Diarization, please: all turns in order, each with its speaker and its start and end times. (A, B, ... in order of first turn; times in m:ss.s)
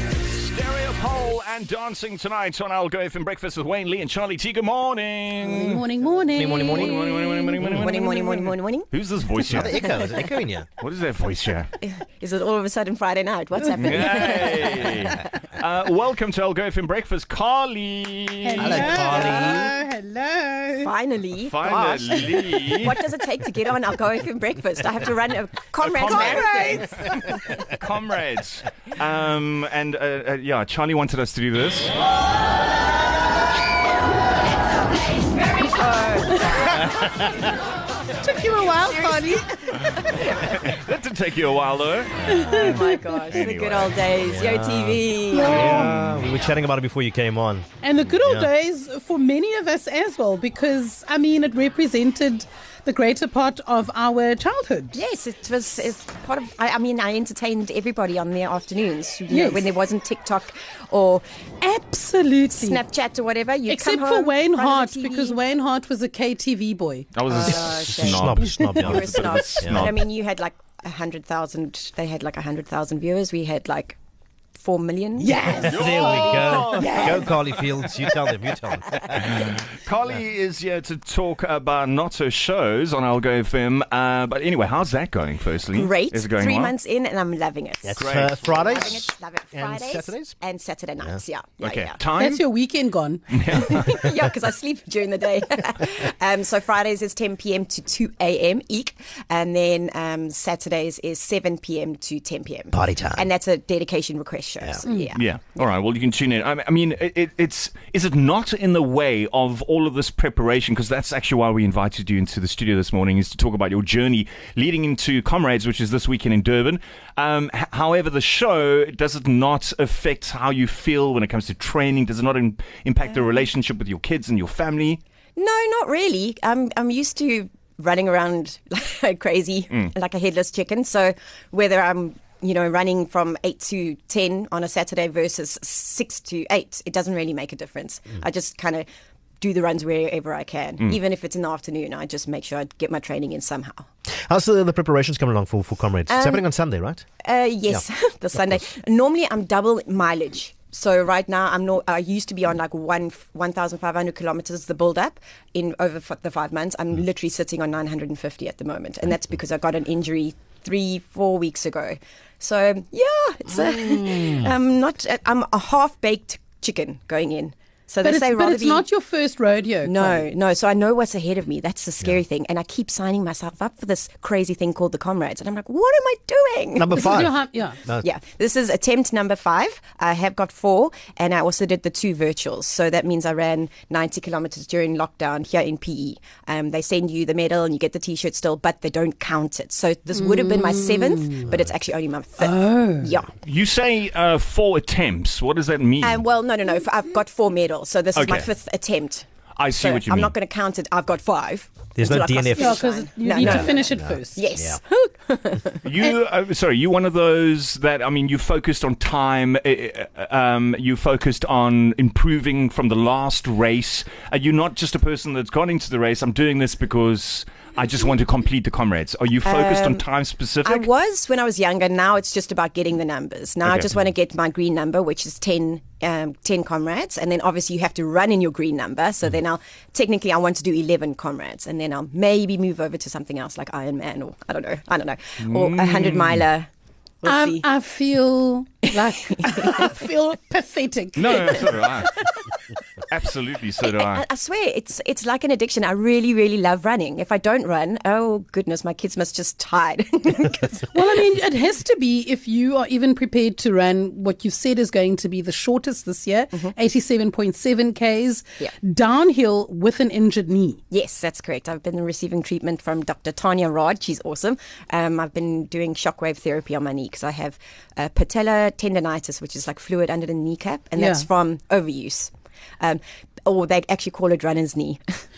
0:00.2-0:05.8 A
0:05.4-0:08.4 B
0:06.3-0:07.1 C
0:06.6-0:08.2 A
0:07.7-0:08.9 D
0:08.9-0:09.9 A
0:09.4-0:10.7 C
0:10.8-0:11.7 A
0:11.8-0:15.3 D
0:13.8-0:19.0 A
0:18.4-0:20.9 B
0:18.6-0:19.7 C
0:19.1-0:19.6 D
0:20.8-0:27.6 D
0:21.4-0:23.0 A
0:25.8-0:31.9 A
0:26.2-0:26.9 B
0:35.7-0:36.9 D
0:38.2-0:39.4 B
0:38.8-0:40.4 D
0:39.9-0:44.0 A
0:42.2-0:43.3 B
0:42.4-0:45.6 D
0:44.2-0:48.5 C
0:45.3-0:46.0 B
0:45.7-0:46.2 A
0:47.8-0:55.0 B
0:54.9-1:01.2 D
0:59.3-0:59.7 B
1:01.6-1:02.8 B
1:02.5-1:05.4 D
1:03.7-1:07.1 B
1:07.1-1:09.9 A
1:07.3-1:14.0 D
1:07.4-1:09.9 C
1:14.6-1:15.6 D
1:15.2-1:17.3 B
1:15.6-1:19.5 C
1:15.7-1:17.3 A
1:19.1-1:26.7 A
1:25.7-1:32.0 D
1:27.8-1:30.3 C
1:28.0-1:28.6 A
1:31.6-1:32.4 A
1:32.2-1:33.5 B
1:33.3-1:34.0 A
1:33.5-1:45.6 D
1:42.7-1:43.3 C
1:45.1-2:05.0 A
2:05.4-2:18.9 D
2:19.4-2:23.9 D
2:24.2-2:27.0 C
2:26.1-2:26.4 D
2:27.2-2:48.8 D
2:48.0-2:50.2 B
2:49.8-2:57.2 D
2:56.8-2:58.0 C
2:57.0-2:57.8 B
2:58.0-3:13.3 D
3:10.2-3:11.4 B
3:12.4-3:13.1 B
3:13.4-3:16.2 A
3:16.0-3:25.8 D
3:18.2-3:18.5 A
3:19.6-3:20.3 A
3:22.0-3:22.8 C
3:22.6-3:24.4 B
3:23.4-3:24.8 C
3:25.8-3:40.9 A
3:39.4-3:40.0 D
3:40.6-3:56.7 D
3:43.6-3:44.0 A
3:55.4-3:56.4 A
3:57.2-3:57.6 D
3:57.2-4:01.8 B
3:58.9-3:59.9 D
4:01.2-4:02.1 A
4:03.1-4:04.2 A
4:03.8-4:11.0 D
4:10.9-4:20.8 B
4:20.9-4:35.0 D
4:31.0-4:31.2 B